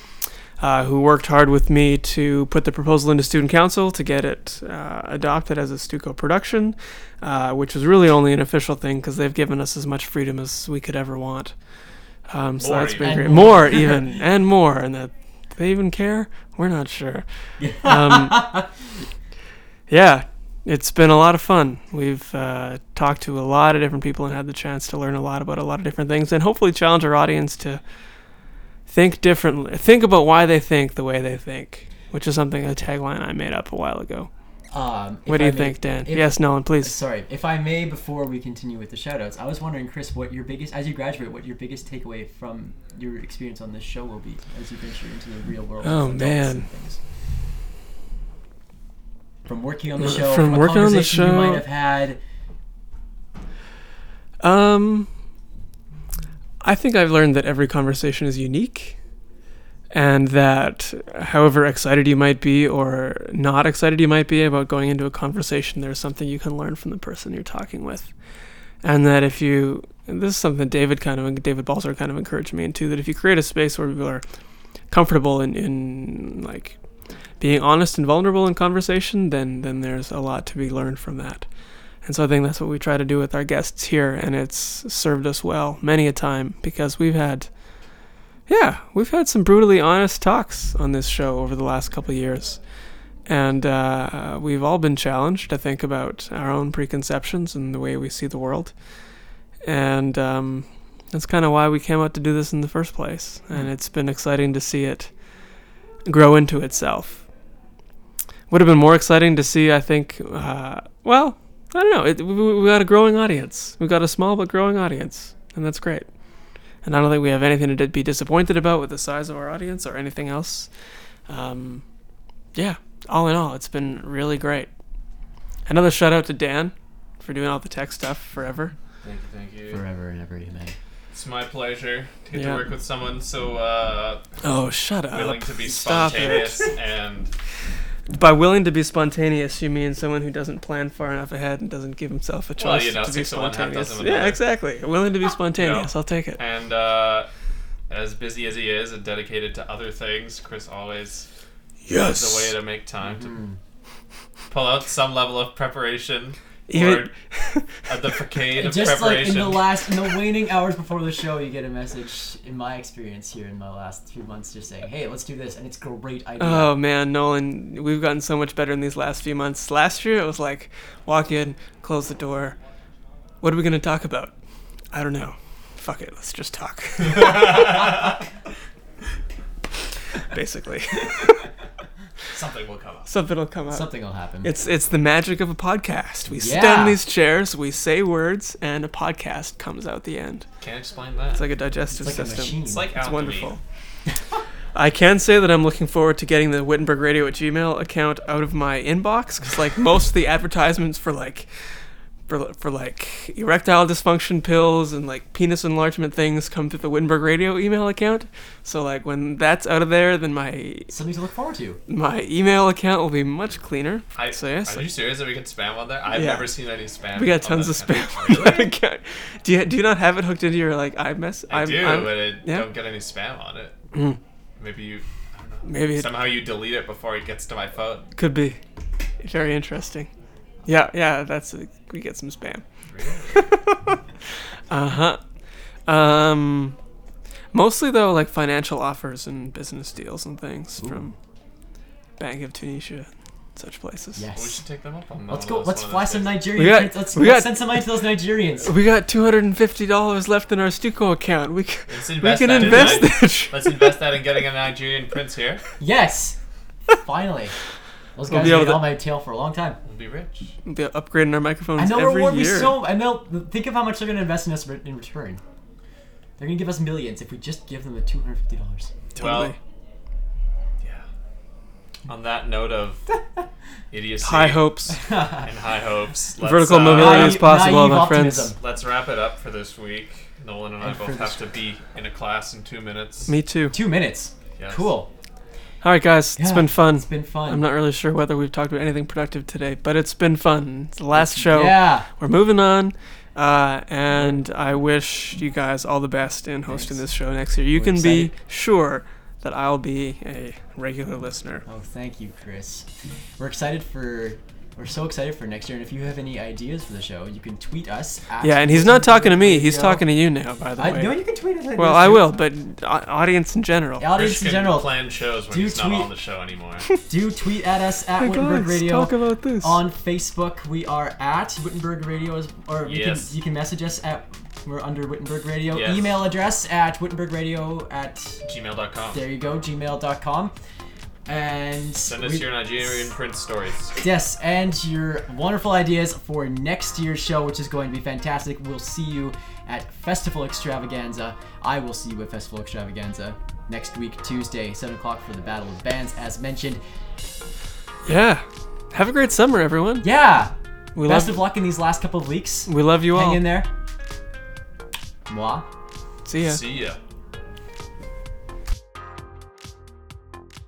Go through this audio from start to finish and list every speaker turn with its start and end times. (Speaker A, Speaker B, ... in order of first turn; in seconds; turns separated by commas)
Speaker A: 0.6-11.5, Speaker A: 12.3-17.2, Speaker B: 12.6-13.4, Speaker C: 13.0-14.0, Speaker C: 17.6-18.7, Speaker A: 17.8-18.5, Speaker A: 19.9-27.8, Speaker A: 28.9-34.3, Speaker C: 34.7-47.0, Speaker A: 35.3-37.0, Speaker A: 45.8-46.7, Speaker C: 49.5-52.2, Speaker A: 50.0-51.6, Speaker A: 54.4-55.1, Speaker A: 56.6-59.0, Speaker A: 59.9-68.1, Speaker A: 68.8-74.2, Speaker A: 74.9-76.8, Speaker A: 77.4-81.5, Speaker A: 82.0-87.5, Speaker A: 88.5-92.6, Speaker A: 93.3-98.7, Speaker A: 99.7-105.1, Speaker A: 106.1-107.3, Speaker A: 108.5-116.1, Speaker A: 116.8-120.7, Speaker A: 121.3-121.8, Speaker A: 122.5-124.7, Speaker A: 125.7-128.7, Speaker B: 129.0-129.8, Speaker C: 129.7-130.8, Speaker B: 131.1-134.3, Speaker A: 132.3-132.6, Speaker A: 134.4-136.7, Speaker B: 135.1-137.3, Speaker A: 138.1-146.4, Speaker B: 142.6-144.4, Speaker B: 145.6-147.3, Speaker B: 147.9-151.3, Speaker A: 151.8-152.5, Speaker B: 152.0-153.4, Speaker C: 153.0-153.6, Speaker B: 154.5-157.1, Speaker A: 156.7-157.8, Speaker B: 157.9-159.7, Speaker C: 158.6-166.7, Speaker A: 166.4-172.6, Speaker A: 173.4-174.3, Speaker A: 174.9-177.8, Speaker B: 177.0-178.2, Speaker A: 180.3-181.5, Speaker B: 182.3-183.1, Speaker A: 183.1-183.9, Speaker C: 183.7-184.5, Speaker A: 184.4-190.5, Speaker C: 186.4-187.0, Speaker B: 190.6-191.4, Speaker A: 191.3-193.6, Speaker C: 191.9-192.9, Speaker B: 192.6-193.6, Speaker A: 194.8-201.5, Speaker A: 202.3-210.9, Speaker C: 210.9-211.8, Speaker A: 211.9-214.9, Speaker B: 214.2-218.7, Speaker A: 216.1-216.5, Speaker A: 217.2-222.7, Speaker B: 221.5-223.8, Speaker A: 223.9-224.2, Speaker B: 224.6-228.1, Speaker A: 225.7-226.1, Speaker A: 228.2-228.6, Speaker A: 229.2-230.1, Speaker A: 230.7-232.6, Speaker B: 232.9-233.5, Speaker A: 233.3-233.9, Speaker A: 234.7-235.2, Speaker A: 235.9-236.8, Speaker A: 237.5-241.2, Speaker C: 240.8-241.1, Speaker A: 242.2-244.3, Speaker C: 244.2-244.6, Speaker B: 244.3-246.4, Speaker C: 245.3-248.7, Speaker A: 246.6-247.9, Speaker A: 248.6-253.8, Speaker B: 251.9-255.6, Speaker C: 252.5-253.0, Speaker C: 255.8-256.4, Speaker C: 256.9-257.6, Speaker C: 258.2-259.8, Speaker A: 258.3-258.9, Speaker B: 259.9-260.5, Speaker A: 260.7-262.8, Speaker C: 261.8-265.4, Speaker C: 266.4-268.9, Speaker B: 269.2-269.6, Speaker A: 269.2-269.6, Speaker B: 272.1-273.1, Speaker B: 273.9-274.7, Speaker A: 274.2-275.0, Speaker C: 274.9-275.5, Speaker B: 275.4-277.4, Speaker A: 276.4-278.5, Speaker C: 276.9-278.6, Speaker B: 278.6-283.3, Speaker C: 280.8-281.4, Speaker A: 283.3-283.8, Speaker C: 283.7-285.1, Speaker B: 284.6-284.9, Speaker A: 285.8-301.6, Speaker C: 286.4-287.7, Speaker C: 291.1-292.1, Speaker C: 296.7-297.0, Speaker C: 297.7-298.3, Speaker C: 301.7-302.9, Speaker C: 303.4-310.1, Speaker A: 308.4-311.2, Speaker C: 310.8-312.3, Speaker A: 311.8-314.1, Speaker C: 314.0-314.9, Speaker B: 314.1-316.9, Speaker C: 315.5-316.1, Speaker C: 317.1-328.4, Speaker A: 318.2-319.8, Speaker B: 322.9-323.4, Speaker B: 325.7-326.1, Speaker B: 328.4-329.2, Speaker C: 329.1-330.5, Speaker C: 331.3-332.5, Speaker B: 332.0-334.0, Speaker C: 334.0-346.8, Speaker A: 348.1-350.1, Speaker C: 350.0-353.7, Speaker A: 350.9-351.4, Speaker A: 352.7-353.4, Speaker C: 355.3-355.7, Speaker A: 356.3-356.6, Speaker B: 356.4-357.0